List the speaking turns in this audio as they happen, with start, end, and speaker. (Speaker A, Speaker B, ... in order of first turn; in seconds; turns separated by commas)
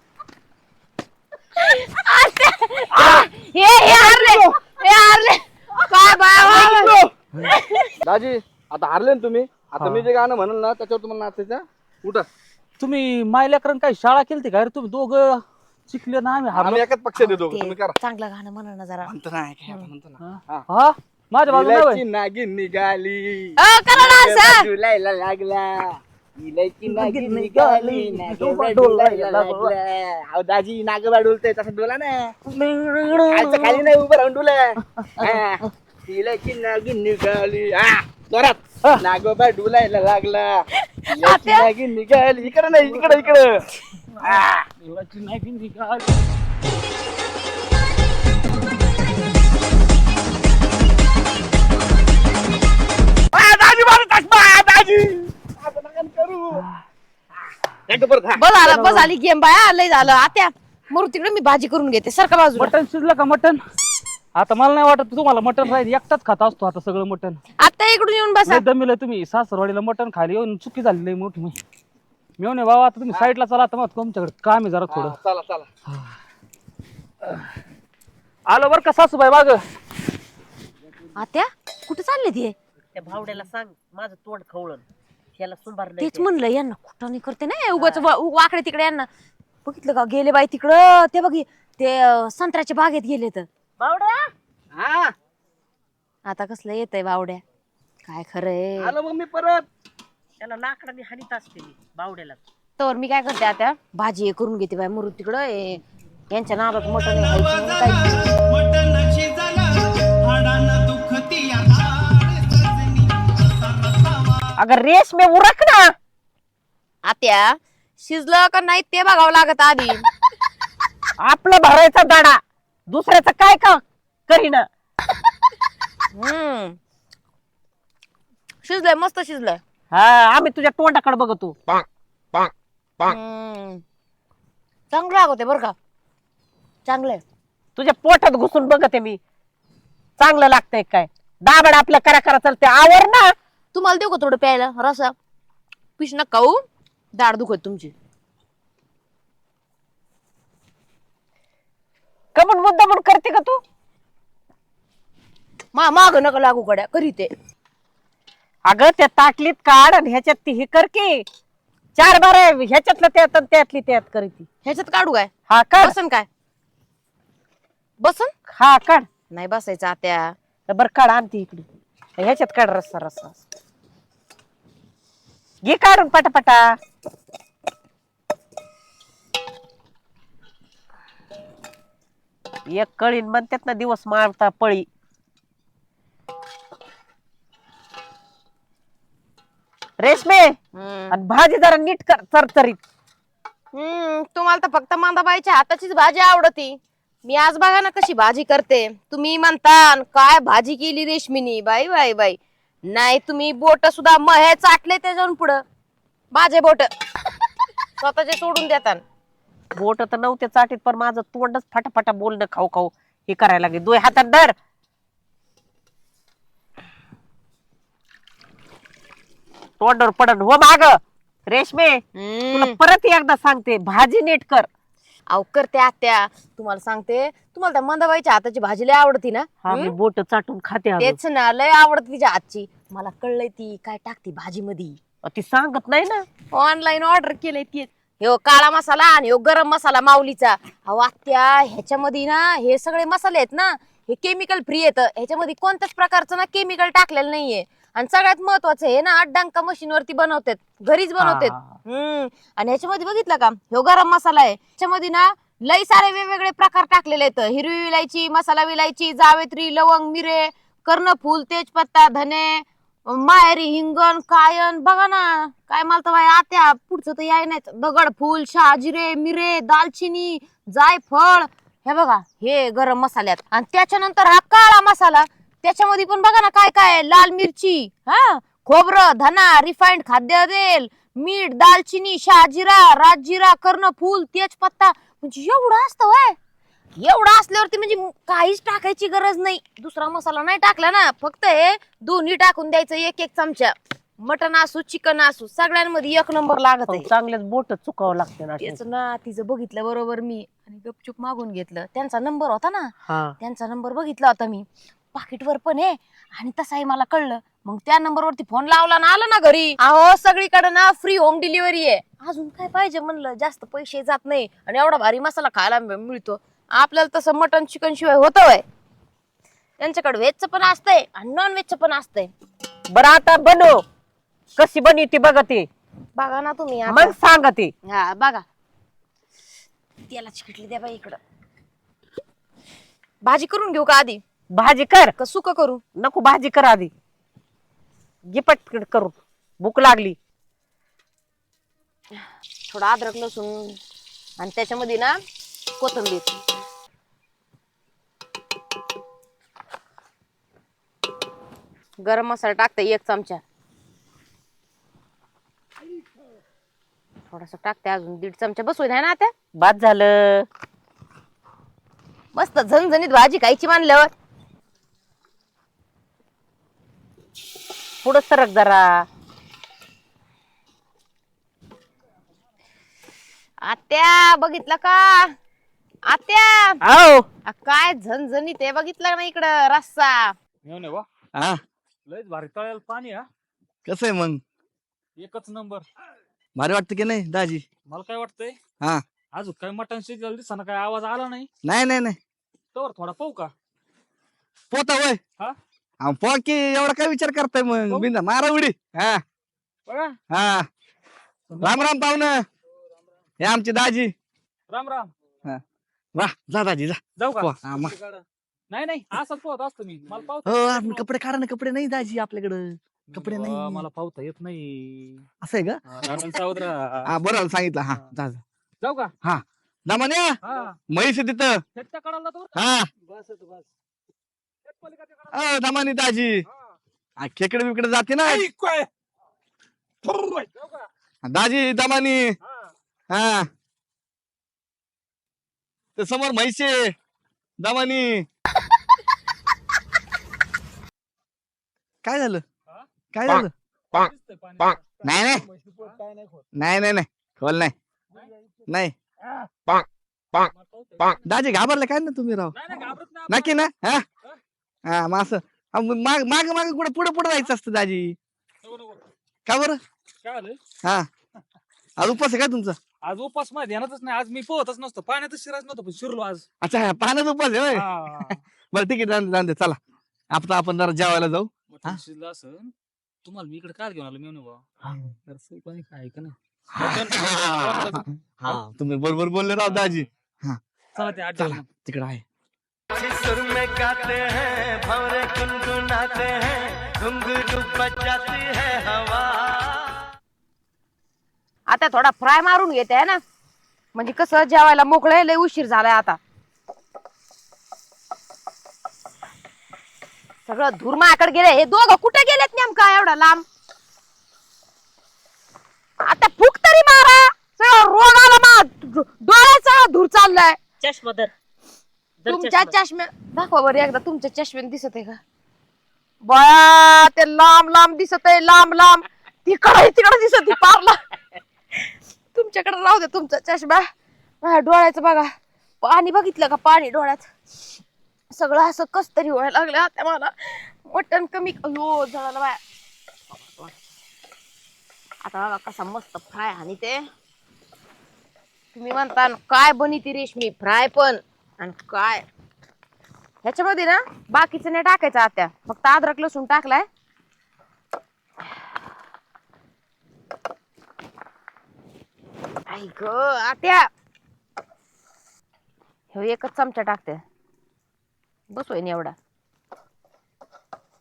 Speaker A: 1.6-6.9, Speaker B: 4.0-4.5, Speaker B: 6.4-7.1, Speaker A: 7.5-7.9, Speaker B: 8.0-12.3, Speaker C: 9.8-10.1, Speaker C: 12.8-16.8, Speaker B: 16.5-18.0, Speaker A: 17.2-19.1, Speaker B: 19.0-20.6, Speaker C: 20.2-22.0, Speaker B: 21.5-32.3, Speaker A: 23.6-24.7, Speaker C: 26.9-29.7, Speaker C: 32.5-33.9, Speaker B: 33.3-43.6, Speaker C: 34.9-35.4, Speaker A: 41.0-41.7, Speaker B: 44.2-44.7, Speaker C: 44.3-46.2, Speaker B: 53.3-56.6, Speaker B: 57.9-58.8, Speaker A: 58.4-62.7, Speaker C: 58.7-59.1, Speaker C: 62.5-63.6, Speaker C: 64.4-67.4, Speaker A: 67.6-68.6, Speaker C: 68.5-71.5, Speaker C: 72.4-75.2, Speaker B: 74.9-75.7, Speaker C: 78.5-79.6, Speaker A: 81.2-82.5, Speaker D: 82.9-84.8, Speaker D: 85.4-86.3, Speaker A: 86.0-89.1, Speaker D: 87.8-88.0, Speaker A: 89.6-93.5, Speaker D: 93.8-94.3, Speaker B: 94.7-95.1, Speaker A: 96.2-97.4, Speaker A: 98.0-98.9, Speaker B: 98.8-99.7, Speaker D: 100.4-102.4, Speaker A: 102.8-108.4, Speaker E: 108.7-113.1, Speaker E: 113.6-114.2, Speaker D: 114.5-115.9, Speaker A: 117.0-120.0, Speaker D: 121.2-124.7, Speaker A: 126.1-126.8, Speaker A: 128.6-129.6, Speaker D: 129.9-131.6, Speaker A: 133.0-133.8, Speaker A: 134.9-135.8, Speaker A: 136.9-137.2, Speaker D: 137.8-139.2, Speaker D: 140.2-143.3, Speaker A: 143.7-145.1, Speaker A: 146.0-147.9, Speaker D: 152.3-153.6, Speaker A: 155.7-157.3, Speaker D: 158.7-161.2, Speaker D: 161.9-164.5, Speaker A: 164.6-166.3, Speaker D: 165.5-165.9, Speaker A: 168.0-168.3, Speaker D: 168.5-169.1, Speaker A: 169.3-170.3, Speaker D: 170.7-171.7, Speaker D: 172.2-173.4, Speaker D: 175.6-176.7, Speaker D: 182.7-184.9, Speaker D: 190.0-190.5, Speaker A: 190.7-191.2, Speaker D: 191.1-192.8, Speaker A: 193.7-205.6, Speaker A: 206.3-206.9, Speaker A: 208.0-209.0, Speaker D: 209.8-214.6, Speaker D: 219.8-222.0, Speaker A: 222.1-222.8, Speaker D: 222.5-224.7, Speaker A: 225.3-229.9, Speaker D: 229.6-231.2, Speaker A: 231.0-235.0, Speaker D: 235.2-236.2, Speaker A: 236.5-286.4, Speaker C: 251.2-251.8, Speaker A: 287.0-297.1, Speaker D: 296.9-298.8, Speaker A: 298.6-318.6, Speaker D: 303.1-303.4, Speaker A: 319.8-322.3, Speaker D: 322.9-323.8, Speaker D: 324.6-325.7, Speaker A: 326.2-327.1, Speaker D: 326.9-327.7, Speaker A: 327.9-328.4, Speaker A: 330.1-331.2, Speaker A: 333.2-334.2, Speaker D: 334.5-335.1, Speaker A: 335.2-335.8, Speaker D: 336.0-336.9, Speaker D: 338.3-340.2, Speaker A: 342.7-343.8, Speaker A: 344.4-345.2, Speaker A: 345.8-346.4, Speaker A: 352.0-353.4, Speaker A: 357.3-359.3, Speaker D: 359.6-360.4, Speaker A: 362.3-364.1, Speaker D: 368.0-369.1, Speaker A: 373.6-375.4, Speaker A: 376.1-376.8, Speaker B: 376.9-377.2, Speaker A: 377.4-380.4, Speaker C: 380.6-381.1, Speaker B: 381.4-381.6, Speaker C: 382.1-383.3, Speaker B: 383.9-384.4, Speaker C: 385.2-385.9, Speaker B: 386.6-387.6, Speaker C: 387.9-388.6, Speaker C: 389.3-391.5, Speaker B: 391.6-392.2, Speaker C: 392.7-393.5, Speaker B: 394.7-395.2, Speaker B: 396.0-399.2, Speaker C: 399.9-400.1, Speaker B: 400.3-400.7, Speaker C: 401.5-401.8, Speaker B: 401.6-402.4, Speaker B: 403.4-404.1, Speaker C: 404.7-405.1, Speaker B: 406.1-407.9, Speaker C: 407.2-407.5, Speaker C: 408.7-411.0, Speaker B: 410.4-413.9, Speaker C: 413.1-415.2, Speaker B: 415.4-416.4, Speaker C: 415.9-417.1, Speaker B: 417.1-418.4, Speaker C: 418.8-419.1, Speaker B: 419.2-421.6, Speaker C: 420.4-420.8, Speaker C: 421.8-423.7, Speaker B: 422.6-422.9, Speaker C: 424.7-425.4, Speaker B: 425.3-426.4, Speaker B: 427.2-428.5, Speaker C: 428.3-428.9, Speaker C: 430.1-430.8, Speaker B: 431.2-432.4, Speaker B: 433.1-433.5, Speaker B: 435.9-436.9, Speaker B: 437.6-438.2, Speaker B: 442.0-442.4, Speaker B: 443.1-443.5, Speaker C: 443.9-445.0, Speaker B: 445.0-445.4, Speaker C: 445.7-446.0, Speaker B: 446.5-447.7, Speaker B: 448.7-448.9, Speaker C: 449.2-449.5, Speaker C: 450.4-451.2, Speaker B: 451.2-452.6, Speaker C: 452.5-453.6, Speaker B: 453.3-454.1, Speaker B: 454.9-458.1, Speaker C: 458.6-459.0, Speaker B: 459.4-459.8, Speaker C: 460.2-460.6, Speaker B: 462.0-462.8, Speaker C: 463.0-466.4, Speaker B: 466.6-469.8, Speaker C: 467.7-468.4, Speaker B: 470.3-472.0, Speaker C: 471.7-472.7, Speaker C: 473.2-474.6, Speaker B: 474.9-475.1, Speaker C: 475.3-478.6, Speaker B: 476.7-480.6, Speaker C: 480.9-481.6, Speaker B: 481.4-482.2, Speaker E: 483.3-489.3, Speaker B: 483.5-484.1, Speaker B: 484.7-489.2, Speaker A: 491.7-493.2, Speaker A: 493.9-496.2, Speaker A: 500.4-503.4, Speaker A: 506.0-510.6, Speaker D: 510.8-511.3, Speaker D: 512.2-512.7, Speaker A: 512.3-515.2, Speaker A: 516.2-521.0, Speaker A: 522.3-523.9, Speaker A: 524.4-527.3, Speaker A: 528.3-532.6, Speaker A: 535.2-537.1, Speaker A: 538.7-542.2, Speaker A: 543.4-546.9, Speaker A: 552.7-553.9, Speaker A: 556.1-557.2, Speaker A: 558.5-559.1